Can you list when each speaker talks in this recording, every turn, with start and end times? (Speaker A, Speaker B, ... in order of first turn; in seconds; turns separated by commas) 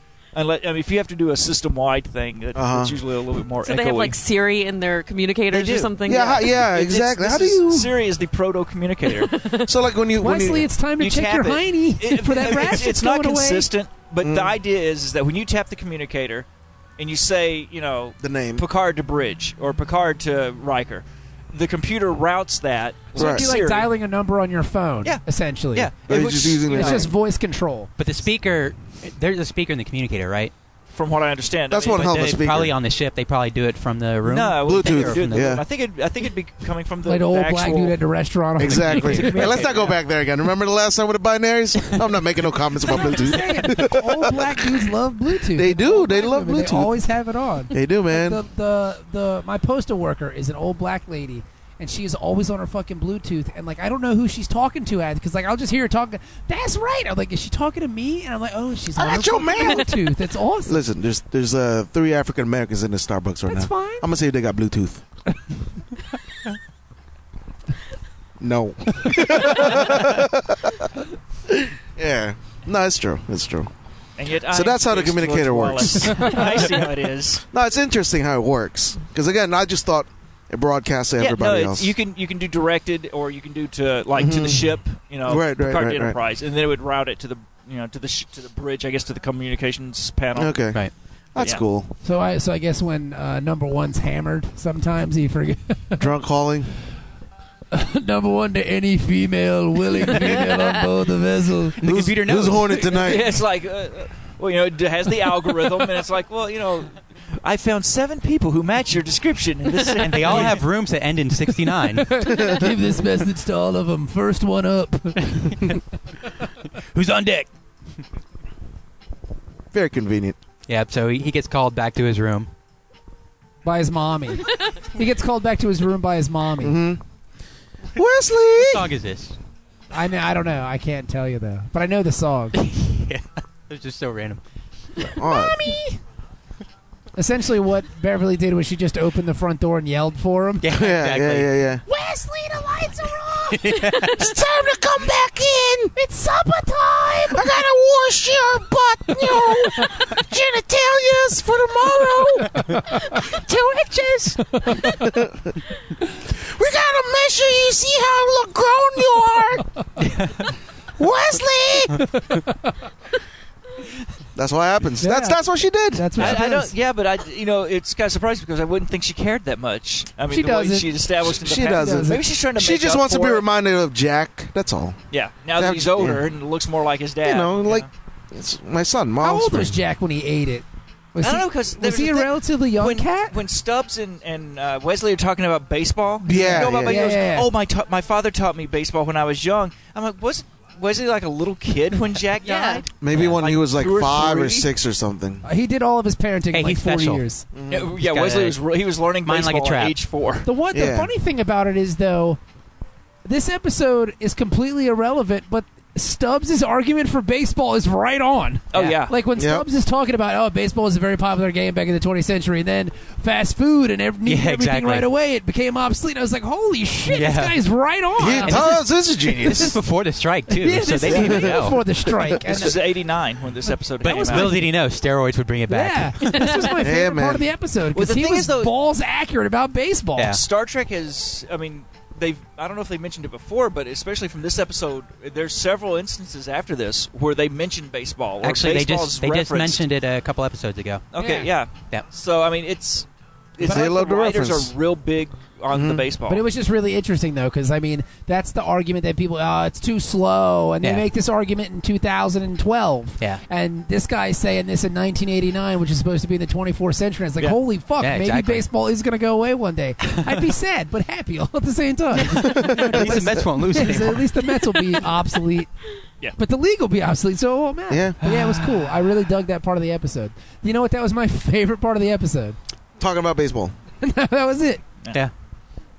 Speaker A: 0.3-4.2, Speaker B: 2.5-3.0, Speaker C: 3.6-6.5, Speaker A: 5.5-5.9, Speaker B: 6.0-8.0, Speaker A: 6.5-9.4, Speaker C: 9.1-9.7, Speaker B: 9.7-10.7, Speaker D: 10.2-13.7, Speaker A: 11.0-16.5, Speaker B: 14.2-14.5, Speaker A: 17.0-23.9, Speaker B: 18.2-18.7, Speaker D: 23.1-25.9, Speaker B: 23.2-23.5, Speaker A: 25.7-27.1, Speaker B: 26.1-27.1, Speaker D: 26.7-27.9, Speaker E: 28.0-30.5, Speaker A: 30.9-32.1, Speaker B: 31.7-32.8, Speaker E: 31.9-35.6, Speaker A: 34.2-38.0, Speaker B: 34.6-35.6, Speaker D: 37.1-39.6, Speaker B: 38.6-44.7, Speaker A: 38.9-40.0, Speaker D: 42.9-60.8, Speaker B: 45.5-47.0, Speaker B: 47.7-48.4, Speaker B: 59.0-60.0, Speaker B: 60.7-65.0, Speaker D: 63.5-64.1, Speaker B: 68.4-70.9, Speaker B: 71.5-73.7, Speaker A: 74.2-77.5, Speaker B: 74.5-76.3, Speaker D: 76.2-76.4, Speaker B: 77.5-81.9, Speaker A: 81.2-90.6, Speaker B: 84.2-86.2, Speaker B: 90.3-91.9, Speaker A: 91.4-91.6, Speaker D: 92.0-96.1, Speaker B: 96.0-96.7, Speaker D: 97.7-101.8, Speaker C: 100.2-100.8, Speaker E: 101.8-103.0, Speaker B: 101.8-103.3, Speaker A: 102.8-110.6, Speaker E: 110.0-112.2, Speaker D: 110.3-110.6, Speaker D: 111.6-115.7, Speaker B: 112.2-112.7, Speaker E: 115.3-115.7, Speaker E: 116.8-117.5, Speaker B: 119.7-120.4, Speaker E: 120.7-122.5, Speaker D: 123.6-126.8, Speaker B: 126.6-127.0, Speaker B: 128.0-128.9, Speaker E: 128.6-129.4, Speaker D: 129.9-132.6, Speaker E: 132.5-134.4, Speaker D: 135.2-136.0, Speaker B: 135.2-135.7, Speaker D: 137.2-140.7, Speaker E: 140.6-141.5, Speaker B: 140.7-141.8, Speaker D: 141.9-143.9, Speaker E: 143.5-144.2, Speaker B: 144.0-145.9, Speaker D: 145.9-147.5, Speaker B: 147.3-152.7, Speaker D: 149.4-150.0, Speaker D: 152.6-153.2, Speaker B: 153.2-155.6, Speaker D: 154.4-155.1, Speaker B: 156.3-159.7, Speaker E: 160.0-160.5, Speaker B: 161.0-162.0, Speaker D: 161.9-162.7, Speaker B: 164.3-166.4, Speaker D: 165.0-165.4, Speaker D: 165.9-166.7, Speaker A: 166.2-173.5, Speaker D: 170.3-170.9, Speaker B: 171.2-175.0, Speaker D: 171.7-172.2, Speaker A: 175.1-177.9, Speaker B: 175.6-176.3, Speaker B: 177.2-179.8, Speaker D: 179.2-183.4, Speaker A: 181.2-194.7, Speaker D: 186.2-187.5, Speaker B: 186.2-187.1, Speaker C: 192.4-192.8, Speaker B: 193.0-195.4, Speaker D: 195.4-197.4, Speaker E: 196.5-197.2, Speaker B: 197.5-197.9, Speaker A: 197.7-200.5, Speaker E: 198.0-198.6, Speaker E: 199.2-200.0, Speaker D: 200.4-202.4, Speaker B: 200.7-201.1, Speaker D: 203.2-218.8, Speaker A: 208.7-209.2, Speaker B: 209.3-209.7, Speaker E: 214.2-215.1, Speaker E: 217.1-217.6, Speaker B: 218.2-219.8, Speaker E: 218.2-218.8, Speaker D: 219.4-219.8, Speaker E: 219.4-221.8, Speaker D: 220.5-222.8, Speaker A: 221.0-221.5, Speaker B: 222.1-222.4, Speaker A: 222.4-224.7, Speaker E: 224.0-226.5, Speaker D: 224.0-224.7, Speaker D: 225.7-230.4, Speaker C: 226.3-226.8, Speaker B: 226.8-227.5, Speaker A: 227.9-228.7, Speaker A: 230.2-239.8, Speaker E: 238.4-241.1, Speaker A: 241.1-246.4, Speaker D: 241.2-241.5, Speaker E: 241.8-242.1, Speaker B: 243.6-244.7, Speaker B: 245.7-246.1, Speaker D: 246.3-265.7, Speaker E: 250.8-251.1, Speaker E: 258.0-258.7, Speaker E: 260.0-260.4, Speaker B: 262.2-263.4, Speaker E: 262.2-265.0, Speaker D: 266.4-272.6, Speaker B: 267.9-268.2, Speaker E: 268.2-269.0, Speaker B: 273.0-273.7, Speaker D: 274.0-274.8